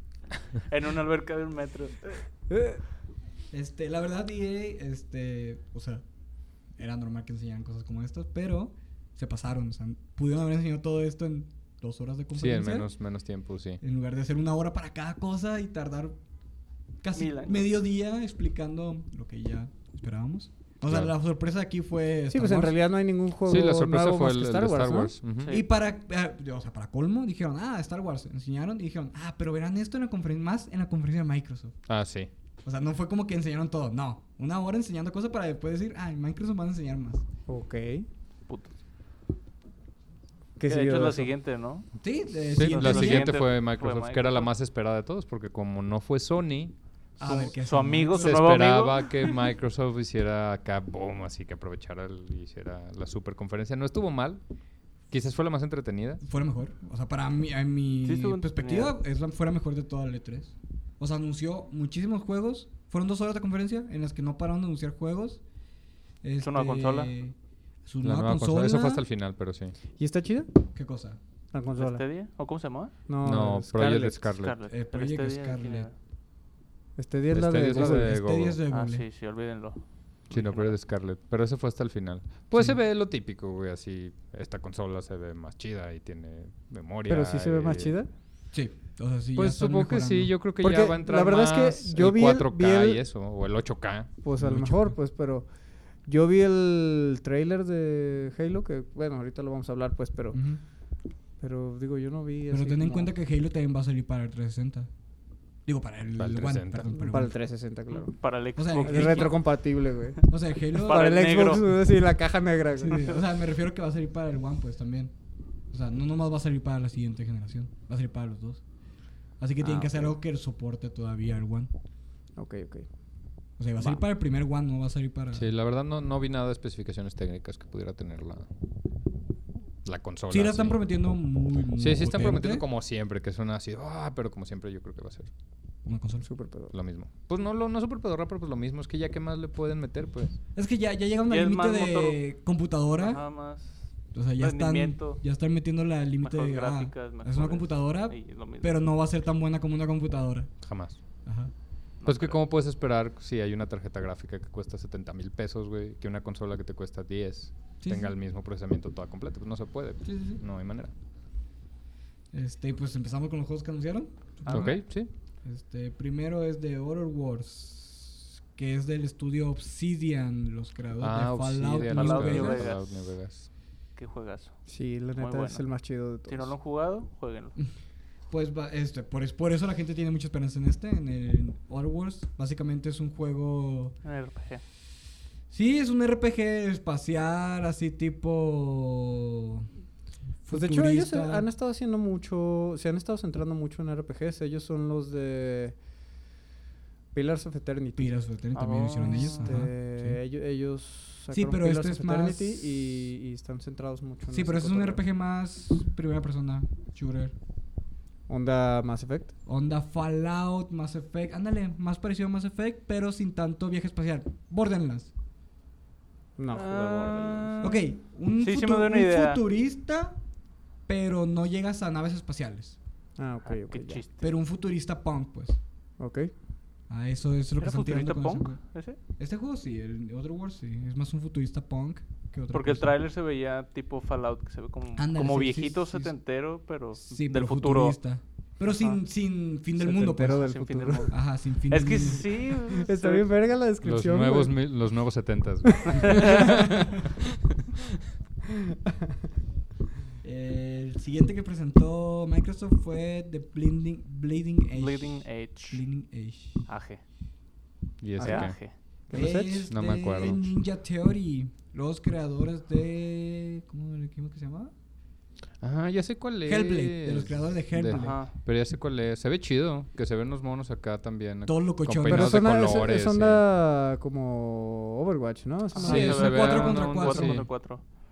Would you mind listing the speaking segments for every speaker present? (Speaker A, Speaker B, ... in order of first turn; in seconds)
Speaker A: 0.5-2.2, 17.1-17.6, 40.7-41.9, 42.6-44.5, 47.2-49.3, 58.0-58.9, 66.4-67.1, 71.8-72.9, 74.4-75.9, 78.7-80.8, 107.9-109.4, 110.8-111.7, 141.3-142.2, 143.0-145.2, 146.2-148.7, 152.0-152.4, 164.4-164.8, 171.9-172.9, 173.9-174.5, 175.2-175.6, 176.3-177.6, 184.0-184.6, 198.5-199.7, 216.5-217.8, 218.4-219.4, 223.4-224.4, 227.6-229.0, 232.5-238.0, 238.6-239.0, 239.9-243.2, 246.0-246.5, 254.7-255.8, 256.7-257.0, 258.2-258.7, 267.9-268.3, 275.7-277.8
Speaker B: 2.5-2.8, 22.3-25.1, 37.5-38.1, 40.6-41.3, 70.0-70.5, 71.5-72.0, 73.1-74.3, 77.0-78.2, 87.1-88.1, 90.6-93.0, 94.2-95.5, 96.0-100.4, 101.4-103.1, 107.0-108.1, 108.8-110.3, 110.8-113.1, 119.6-120.1, 122.4-122.9, 123.8-124.0, 136.2-136.7, 174.7-176.5, 190.5-195.8, 197.1-198.1, 199.0-205.0, 208.3-209.3, 216.4-217.7, 223.2-224.0, 226.0-226.3, 239.8-241.1, 242.7-244.6, 245.8-246.7, 259.1-259.7, 272.1-276.2
Speaker C: 3.5-6.0, 6.8-12.9, 13.8-16.1, 17.0-22.7, 25.5-31.8, 32.6-37.2, 42.0-43.4, 47.2-48.6, 56.2-65.4, 66.2-67.3, 67.8-69.0, 70.7-71.2, 74.7-75.9, 77.7-79.0, 88.5-90.3, 94.4-94.9, 100.3-100.6, 102.5-104.9, 105.7-107.3, 108.5-109.4, 110.3-111.0, 112.8-115.1, 115.7-118.6, 119.4-121.7, 123.6-125.4, 130.3-132.6, 135.8-136.3, 140.5-143.2, 144.1-150.6, 151.2-151.5, 157.8-158.1, 160.0-160.4, 162.3-172.7, 178.3-183.9, 185.5-189.7, 190.4-191.4, 198.0-200.2, 201.3-202.7, 204.3-207.3, 209.4-215.1, 217.6-220.2, 220.9-222.8, 224.2-225.6, 226.9-228.6, 229.2-233.0, 235.0-236.1, 236.9-240.4, 241.1-242.3, 250.2-256.6, 259.1-264.7, 266.4-268.2, 271.4-272.5, 275.8-277.5
Speaker D: 12.3-13.8, 20.9-21.1, 23.4-25.5, 31.9-32.3, 42.5-46.8, 48.2-54.4, 55.1-56.2, 68.0-69.7, 73.2-74.6, 77.3-78.6, 80.3-88.0, 89.3-94.1, 106.2-106.9, 125.3-128.5, 129.8-130.8, 131.8-135.3, 136.7-140.4, 150.6-151.0, 152.0-160.9, 164.5-165.1, 171.0-173.5, 243.8-247.8, 258.0-258.6, 259.7-260.5, 265.6-273.4, 275.9-277.4